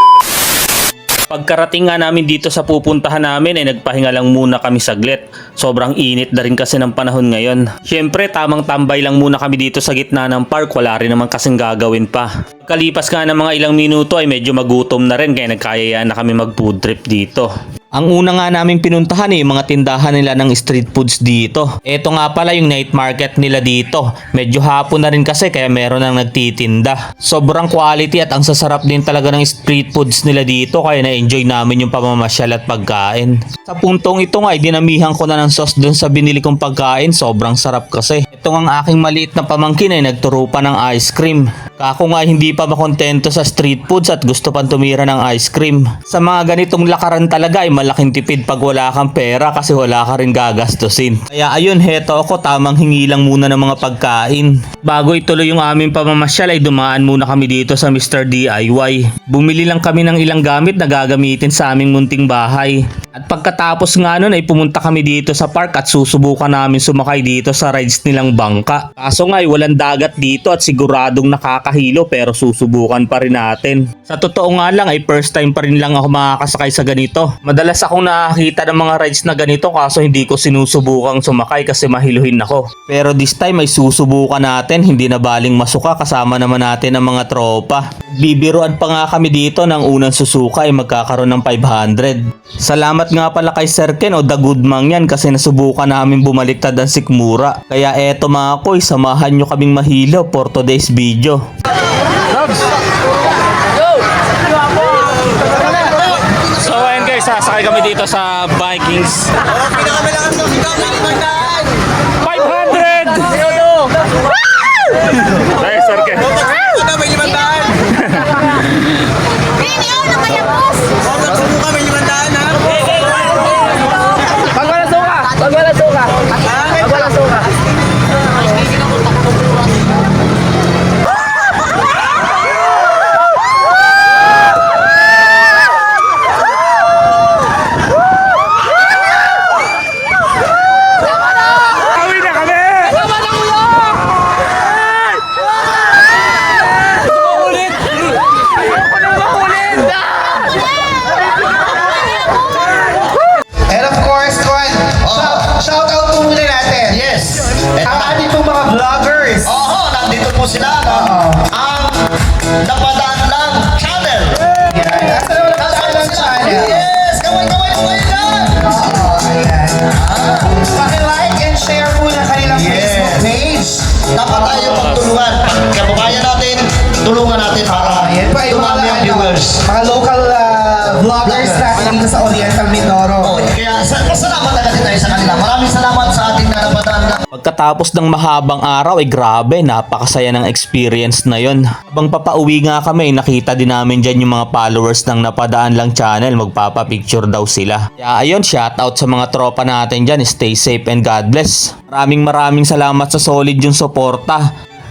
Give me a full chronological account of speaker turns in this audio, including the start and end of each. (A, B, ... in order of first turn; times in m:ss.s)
0:01.3-1:41.4 A
1:46.5-1:49.4 A
1:49.7-1:51.6 B
1:52.2-1:53.9 A
1:55.2-1:56.8 A
1:57.5-1:58.9 A
2:02.1-2:02.5 A
2:04.5-2:06.1 A
2:06.8-2:07.3 A
2:22.2-2:22.9 A
2:27.4-2:27.7 A
2:33.7-2:37.0 C
2:35.0-2:35.5 B
2:36.9-2:38.2 B
2:37.9-2:39.5 C
2:39.4-2:44.4 B
2:41.0-2:41.4 C
2:44.7-2:46.7 C
2:45.6-2:48.8 B
2:48.6-2:49.9 C
2:49.8-2:50.6 B
2:50.7-2:53.8 C
2:52.5-2:53.3 B
2:54.1-2:59.6 B
2:57.9-3:03.4 C
3:01.4-3:01.7 B
3:03.2-3:07.2 B
3:07.3-3:24.5 A